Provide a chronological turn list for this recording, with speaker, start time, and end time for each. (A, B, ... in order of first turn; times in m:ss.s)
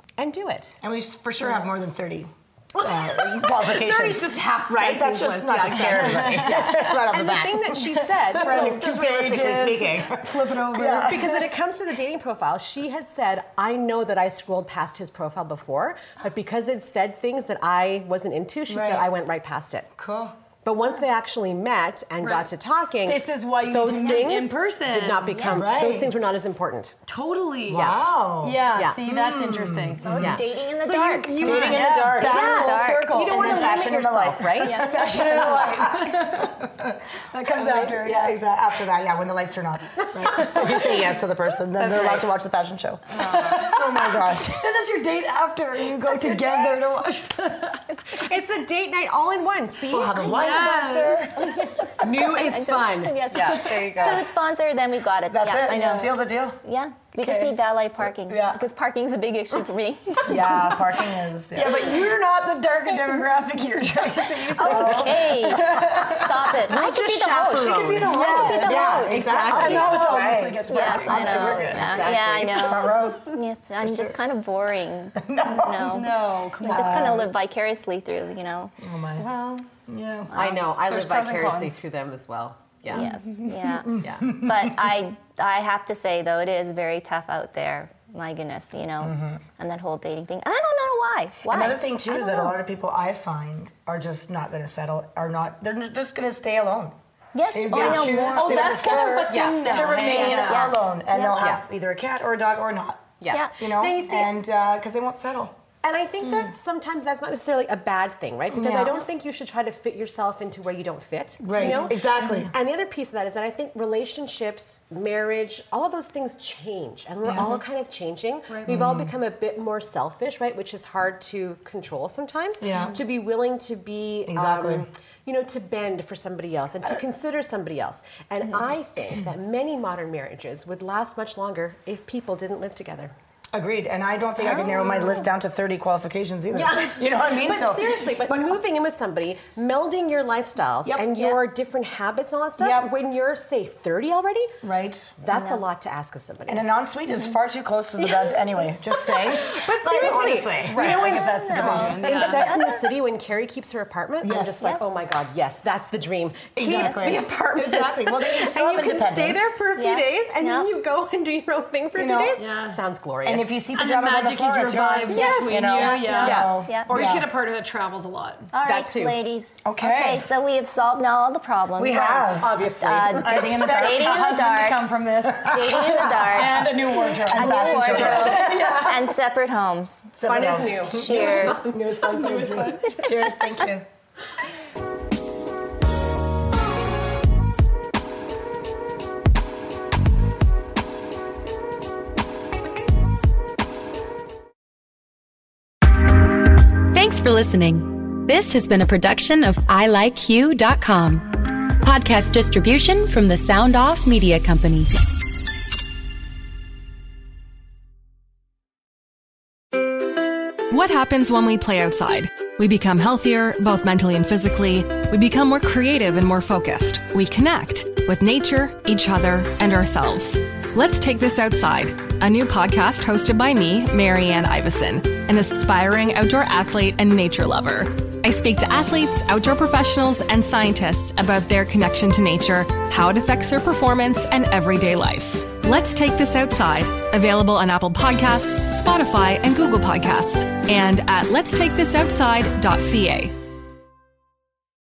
0:00.2-0:00.8 A
0:00.8-0:11.5 B
0:02.8-0:09.9 A
0:05.9-0:07.1 C
0:07.7-0:11.3 C
0:11.0-0:19.9 A
0:18.7-0:19.1 B
0:20.0-0:20.4 B
0:20.6-0:27.0 A
0:22.2-0:22.5 C
0:23.0-0:25.5 C
0:25.3-0:25.7 D
0:25.5-0:26.4 B
0:27.1-0:30.2 C
0:27.7-0:30.4 B
0:28.8-0:29.0 A
0:30.0-0:33.2 D
0:30.2-0:34.9 A
0:31.4-0:33.9 C
0:31.4-0:32.6 B
0:33.2-0:44.8 B
0:34.6-0:36.7 C
0:34.6-0:35.0 D
0:37.3-0:38.4 C
0:40.3-0:40.8 A
0:40.4-0:40.8 C
0:41.8-0:42.3 A
0:43.1-0:43.7 A
0:43.2-0:48.2 C
0:46.0-0:46.9 B
0:48.1-0:50.4 A
0:49.9-0:51.6 B
0:50.2-0:51.3 C
0:51.4-1:00.6 D
0:52.0-0:54.3 A
0:55.3-0:56.6 B
0:57.2-0:57.5 C
0:58.3-0:58.6 B
1:00.3-1:02.1 B
1:01.6-1:06.2 C
1:04.6-1:05.0 A
1:04.6-1:06.1 B
1:04.6-1:18.7 D
1:05.7-1:10.4 A
1:07.5-1:14.2 B
1:08.1-1:12.1 C
1:11.1-1:12.9 A
1:15.2-1:16.1 B
1:15.8-1:17.3 C
1:16.6-1:17.3 B
1:18.8-1:19.3 B
1:19.2-1:19.7 C
1:19.9-1:20.4 B
1:20.3-1:23.1 A
1:20.4-1:21.8 C
1:22.9-1:32.6 D
1:22.9-1:23.8 C
1:23.8-1:25.0 B
1:24.0-1:24.3 A
1:29.0-1:29.4 B
1:31.5-1:37.0 B
1:37.4-1:39.0 D
1:37.5-1:45.5 B
1:37.7-1:40.6 C
1:37.7-1:38.0 A
1:38.6-1:40.8 A
1:40.2-1:41.5 D
1:43.2-1:44.3 A
1:45.8-2:13.1 A
1:48.5-1:49.0 B
1:51.4-1:52.5 B
1:51.6-1:52.5 C
1:57.2-1:57.6 B
1:58.5-1:58.7 C
1:58.7-1:59.1 B
2:02.6-2:03.0 B
2:02.7-2:03.0 C
2:04.2-2:04.9 B
2:13.5-2:18.6 B
2:14.4-2:15.0 D
2:16.5-2:24.6 A
2:20.8-2:21.4 B
2:22.6-2:22.9 B
2:24.6-2:25.1 B
2:25.2-2:26.7 A
2:25.3-2:25.6 D
2:26.5-2:32.0 B
2:28.0-2:43.5 A
2:30.7-2:32.6 C
2:30.8-2:32.9 D
2:34.2-2:34.7 B
2:34.6-2:34.8 D
2:36.6-2:39.7 B
2:36.7-2:37.2 D
2:39.7-2:40.7 D
2:41.9-2:42.4 B
2:42.4-2:42.8 C
2:43.2-2:47.3 B
2:43.7-2:48.5 C
2:45.1-2:47.1 D
2:45.1-2:46.6 A
2:48.5-2:54.8 D
2:48.6-2:49.2 A
2:49.6-2:50.3 B
2:51.8-2:54.3 B
2:52.4-2:53.2 A
2:53.2-2:59.1 C
2:55.3-2:58.9 B
2:55.4-2:56.7 D
2:57.3-3:01.8 D
3:00.2-3:03.9 B
3:00.2-3:01.8 A
3:02.0-3:03.2 C
3:16.9-3:25.0 E
3:30.7-4:03.4 F